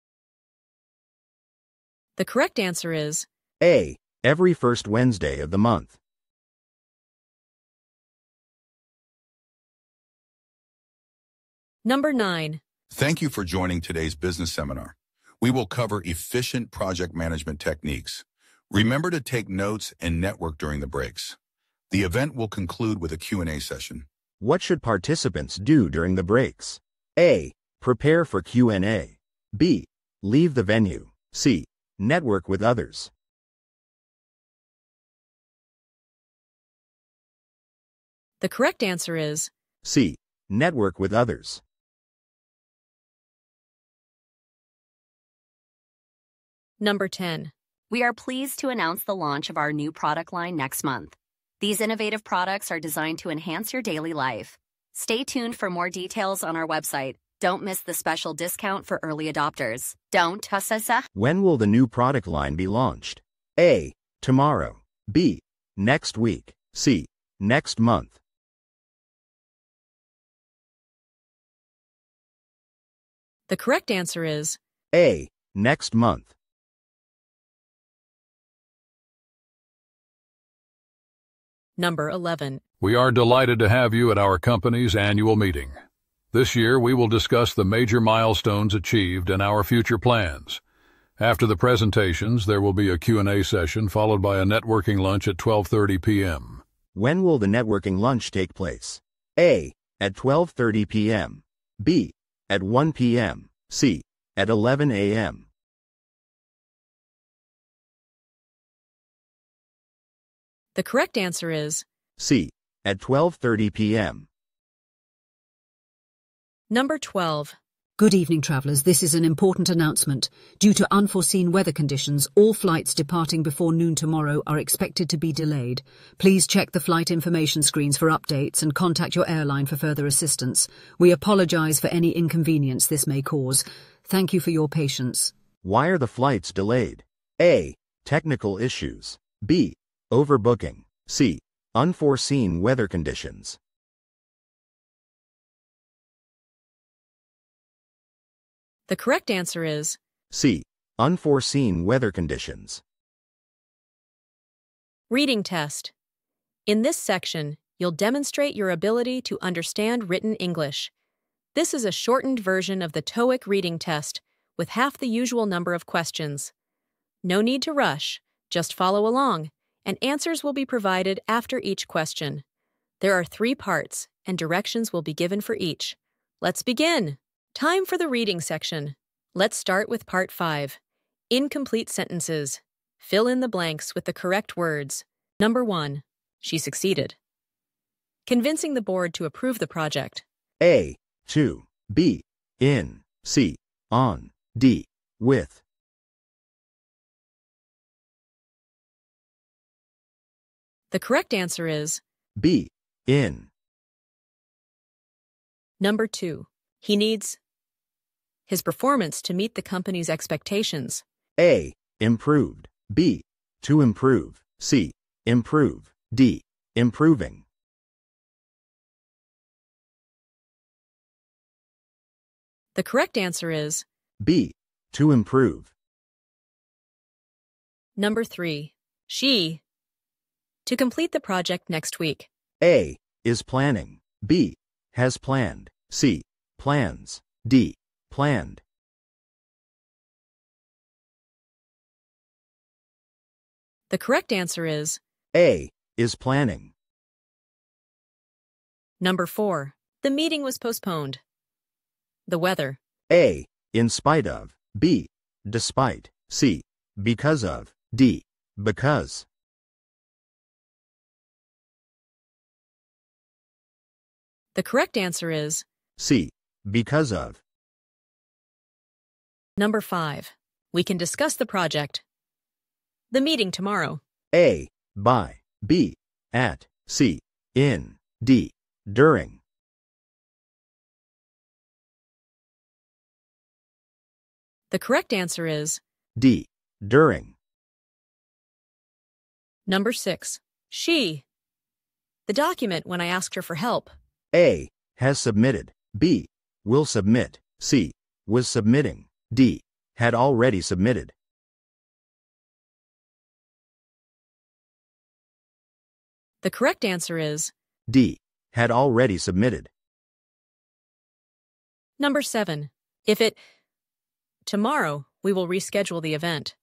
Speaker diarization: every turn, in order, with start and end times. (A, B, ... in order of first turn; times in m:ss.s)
0:02.2-0:03.2 A
0:03.6-0:06.0 B
0:11.8-0:12.6 A
0:12.9-0:21.4 C
0:21.9-0:24.0 C
0:24.4-0:33.1 B
0:38.4-0:39.5 A
0:39.8-0:41.6 B
0:46.8-0:47.5 A
0:47.9-1:01.0 D
1:01.1-1:08.2 B
1:13.5-1:14.6 A
1:14.9-1:16.3 B
1:21.8-1:22.6 A
1:22.8-1:25.7 E
1:26.3-1:30.6 E
1:31.2-1:36.6 E
1:36.9-1:45.5 B
1:50.7-1:51.8 A
1:52.2-1:54.3 B
1:56.7-1:57.6 A
1:58.0-2:15.3 F
2:15.6-2:23.6 B
2:28.9-2:30.0 A
2:30.3-2:32.8 B
2:35.1-2:35.9 A
2:36.7-2:40.9 A
2:41.5-2:46.5 A
2:47.2-2:52.4 A
2:53.0-3:00.8 A
3:01.3-3:07.2 A
3:08.2-3:10.2 A
3:10.6-3:15.6 B
3:20.9-3:22.0 A
3:22.4-3:23.5 B
3:25.8-3:27.4 A
3:28.5-3:31.0 A
3:31.4-3:37.4 B
3:42.7-3:43.8 A
3:44.2-3:45.7 B
3:48.0-3:49.6 A
3:50.6-3:52.3 A
3:52.6-3:58.6 B
4:03.9-4:05.0 A
4:05.3-4:06.7 B
4:09.0-4:11.2 A
4:12.3-4:12.8 A
4:13.1-4:19.2 B
4:24.5-4:25.6 A
4:26.0-4:27.4 B
4:29.6-4:32.0 A
4:33.1-4:34.0 A
4:34.3-4:39.4 B
4:44.7-4:45.8 A
4:46.2-4:47.3 B
4:49.7-4:51.2 A
4:52.3-4:53.9 A
4:54.3-5:01.1 B
5:06.4-5:07.5 A
5:07.9-5:09.7 B
5:12.0-5:13.4 A
5:14.4-5:16.5 A